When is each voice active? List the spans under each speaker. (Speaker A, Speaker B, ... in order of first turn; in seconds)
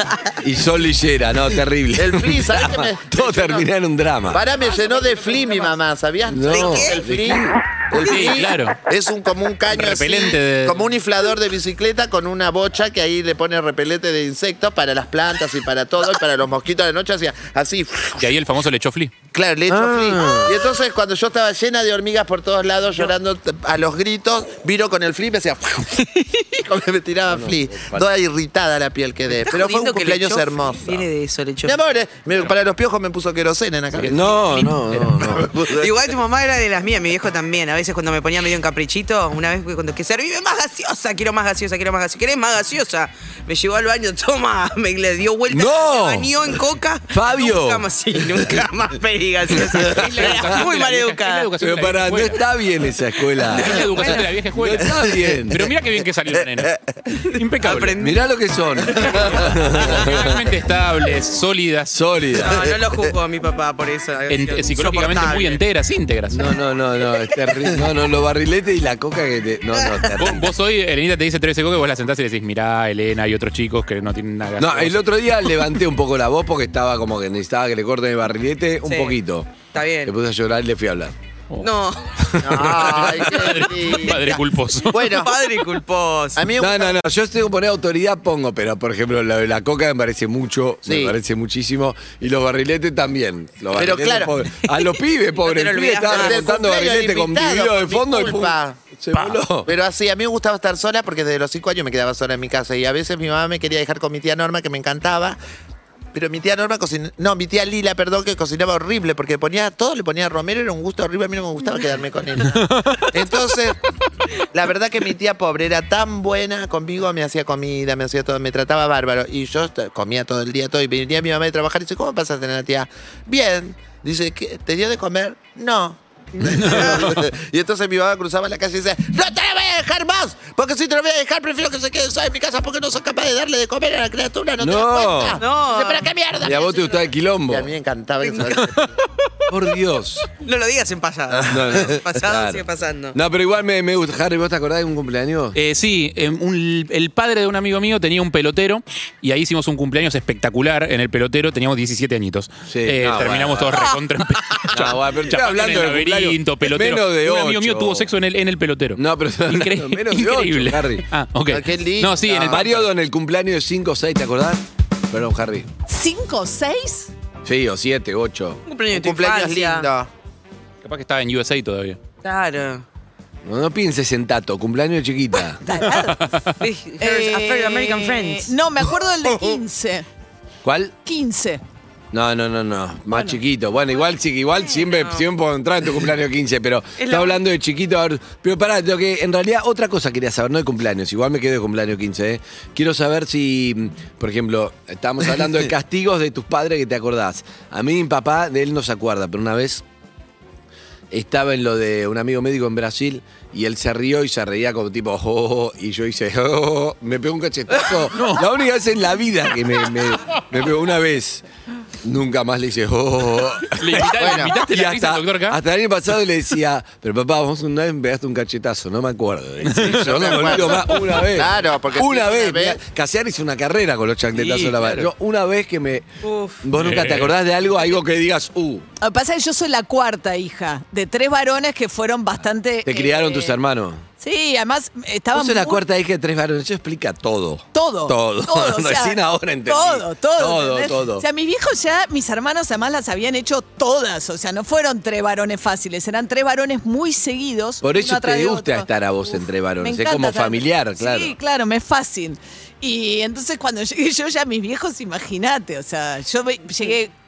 Speaker A: 0.4-4.4, 6.2-7.6, 19.7-20.6, 27.3-28.1, 34.0-35.6, 45.5-46.3, 47.1-47.8, 49.7-50.6, 51.6-55.7, 58.0-60.3, 61.9-62.7, 66.3-70.5, 74.6-81.1, 82.4-83.1, 86.6-99.7, 134.6-135.4, 136.4-137.7, 139.5-140.3, 141.4-145.6, 152.7-153.9, 154.7-158.1, 158.9-161.0, 162.4-165.7, 167.4-168.6, 173.4-175.6, 180.6-180.9, 182.1-199.8, 201.1-211.4, 212.0-226.1, 226.6-228.8, 232.8-234.0, 235.3-241.2, 247.8-251.3
Speaker B: 1.9-3.7, 4.3-18.3, 19.3-31.1, 31.6-35.9, 56.5-57.2, 82.4-85.3, 86.3-87.0, 90.8-91.1, 93.7-94.3, 96.1-98.8, 99.6-105.4, 106.1-113.8, 114.5-138.9, 161.5-162.7, 168.9-170.1, 214.1-214.5, 219.8-222.8
Speaker C: 6.5-7.0, 29.3-31.8, 35.8-51.5, 53.5-54.2, 57.6-58.2, 58.9-60.3, 62.4-65.6, 69.8-70.2, 78.8-79.2, 79.7-80.1, 81.6-82.1, 85.1-86.5, 95.4-96.4, 135.4-136.1, 138.2-138.5, 140.4-143.2, 168.7-169.9, 172.2-172.8, 176.6-178.5, 184.7-185.2, 187.0-187.4, 226.2-226.6
Speaker D: 8.0-8.8, 9.7-10.8, 18.2-19.1, 49.9-52.4, 53.6-56.7, 57.3-57.9, 59.2-61.9, 64.3-66.5, 70.2-75.0, 82.8-85.1, 112.5-113.1, 126.5-127.2, 145.6-162.7, 170.8-172.0, 175.9-176.6, 208.1-208.4, 213.7-215.6, 219.7-220.5, 224.3-225.1, 226.8-227.3
Speaker E: 165.9-167.1, 175.6-176.2, 177.0-180.1, 181.0-181.6, 183.1-183.4, 229.0-233.5, 234.2-235.8, 237.7-248.9, 249.8-257.1